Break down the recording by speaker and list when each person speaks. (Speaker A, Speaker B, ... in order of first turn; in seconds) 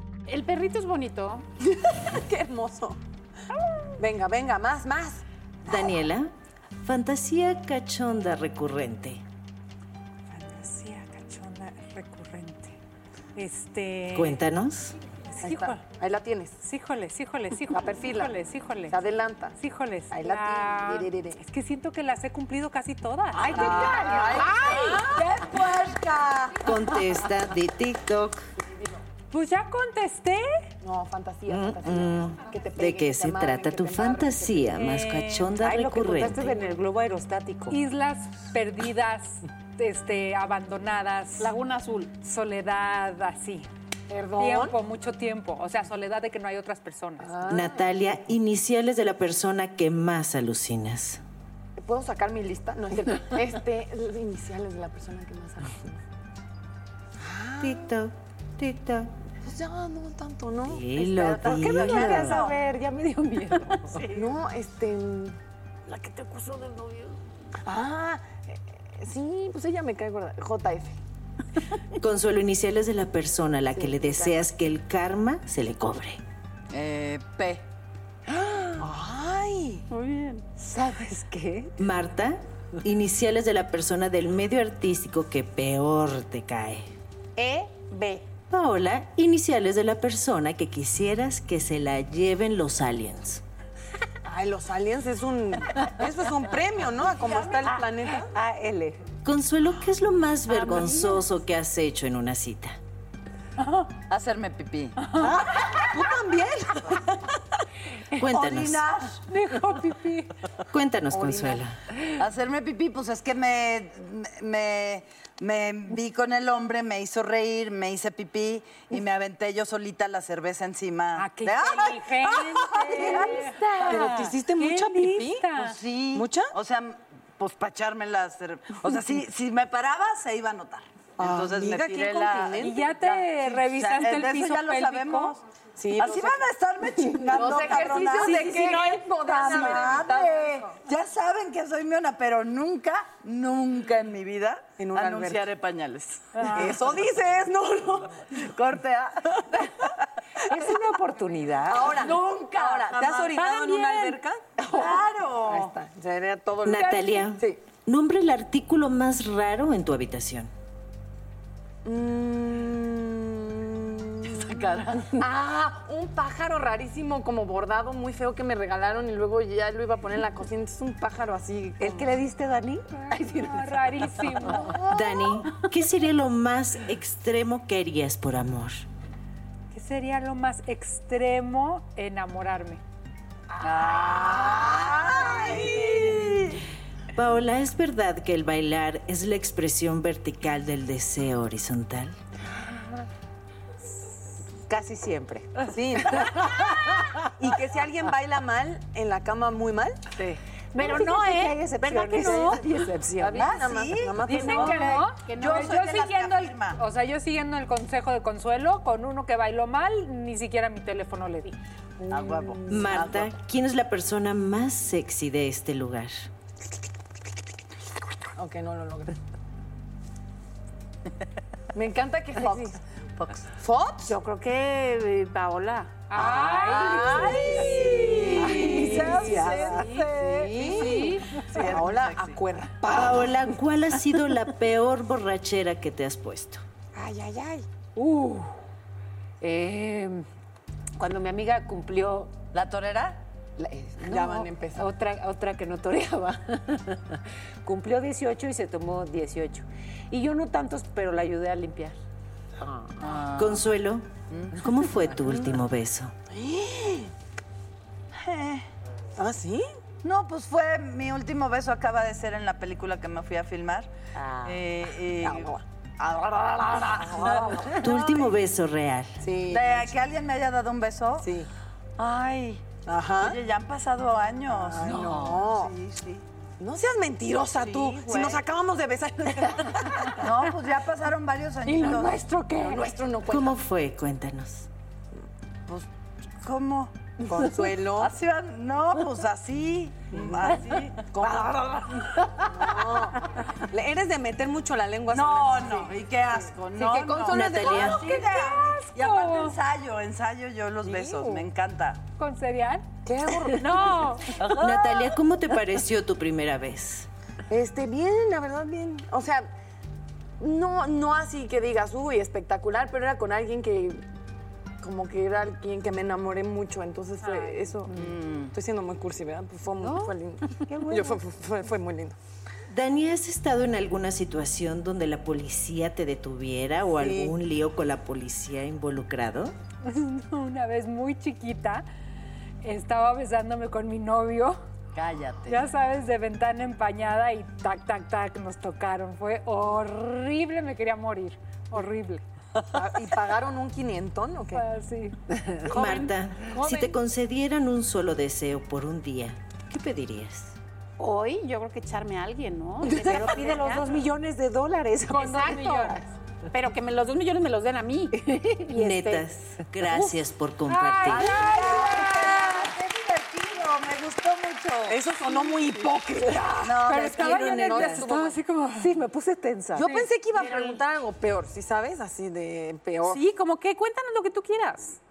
Speaker A: 0.3-1.4, 24.3-25.0, 41.4-42.1, 79.9-80.4, 87.3-88.2, 200.8-201.6, 224.1-226.0, 303.6-304.2, 345.7-346.1, 351.0-353.9, 355.2-355.9, 356.5-359.2, 370.4-370.8, 373.0-375.0
Speaker B: 1.6-3.0, 4.0-5.2, 15.4-16.6, 17.7-18.4, 18.9-19.6, 20.1-21.4, 23.3-26.8, 30.8-34.7, 44.1-44.8, 47.2-47.9, 51.8-56.0, 57.2-57.9, 59.4-62.5, 64.1-65.4, 65.9-66.3, 67.6-71.0, 73.7-74.4, 78.3-79.8, 94.2-98.3, 105.2-107.0, 111.1-111.6, 122.9-125.5, 126.1-126.5, 131.2-132.7, 135.8-140.7, 144.8-145.5, 146.4-148.3, 151.7-157.6, 161.8-172.1, 174.7-175.5, 183.7-186.3, 195.7-196.7, 197.4-200.1, 202.1-205.0, 212.0-213.2, 218.3-219.2, 221.7-222.8, 223.5-224.2, 226.2-233.6, 236.9-237.7, 244.0-244.9, 256.3-257.1, 259.2-259.6, 265.2-265.6, 266.8-267.9, 269.2-269.9, 271.2-271.5, 272.9-273.4, 274.5-275.7, 276.6-280.3, 281.6-283.6, 287.2-288.1, 290.1-295.9, 296.7-298.2, 300.8-301.4, 303.0-304.2, 307.5-309.5, 310.4-314.0, 314.8-322.1, 326.9-327.4, 342.7-344.6, 352.9-353.3, 364.9-368.4, 369.7-373.2
Speaker C: 5.7-9.2, 14.1-14.9, 26.6-28.4, 31.5-36.5, 47.5-51.2, 57.6-59.1, 60.6-62.4, 71.9-76.2, 81.8-86.9, 88.5-93.4, 99.2-102.8, 108.1-108.9, 110.7-111.8, 156.6-160.5, 174.8-178.8, 187.1-192.2, 212.7-216.3, 232.8-236.6, 253.4-256.1, 267.8-269.2, 283.2-284.7, 297.3-298.1, 304.5-307.1, 322.7-329.5, 345.6-350.6, 358.7-361.4, 367.3-368.1
Speaker D: 10.3-12.8, 13.3-14.4, 15.3-15.8, 16.6-19.0, 19.6-25.4, 29.3-30.7, 34.7-35.6, 37.7-41.5, 42.2-43.7, 44.4-47.4, 100.9-101.2, 109.3-110.3, 121.2-125.8, 132.6-135.4, 138.0-138.9, 156.8-157.0, 173.1-174.9, 179.7-182.8, 202.0-202.5, 204.3-211.6, 226.1-228.0, 230.8-231.4, 298.1-299.6, 302.2-302.9, 303.8-304.2, 317.2-317.8, 329.8-331.9, 332.6-334.6, 335.5-342.2, 344.5-345.2, 346.5-346.9, 355.1-356.0, 360.6-362.7, 366.9-368.9
Speaker E: 23.6-24.5, 61.6-62.5, 76.7-77.6, 97.1-97.8, 104.1-105.0, 108.3-109.2, 112.2-123.8, 125.5-146.9, 148.3-149.7, 151.9-153.9, 154.7-155.7, 164.2-165.3, 183.6-186.6, 203.3-206.8, 212.1-213.3, 223.2-223.4, 227.1-232.4, 242.5-243.2, 253.0-253.7, 254.3-254.6, 258.1-258.6, 260.0-268.3, 269.5-271.3, 272.0-276.2, 277.6-278.4, 280.1-282.2, 286.4-287.0, 287.9-292.3, 295.1-302.0, 304.4-304.9, 317.9-318.5, 334.9-335.7, 361.0-365.0, 366.6-368.0
Speaker F: 35.6-37.8, 61.4-64.1, 80.6-81.8, 97.6-99.0, 150.4-152.2, 171.8-174.6, 194.7-196.3, 200.2-203.5, 226.2-227.4, 228.2-230.0, 237.9-238.5, 239.4-240.2, 241.0-242.3, 243.6-252.0, 252.6-253.1, 319.8-321.2, 352.9-355.9, 368.8-369.9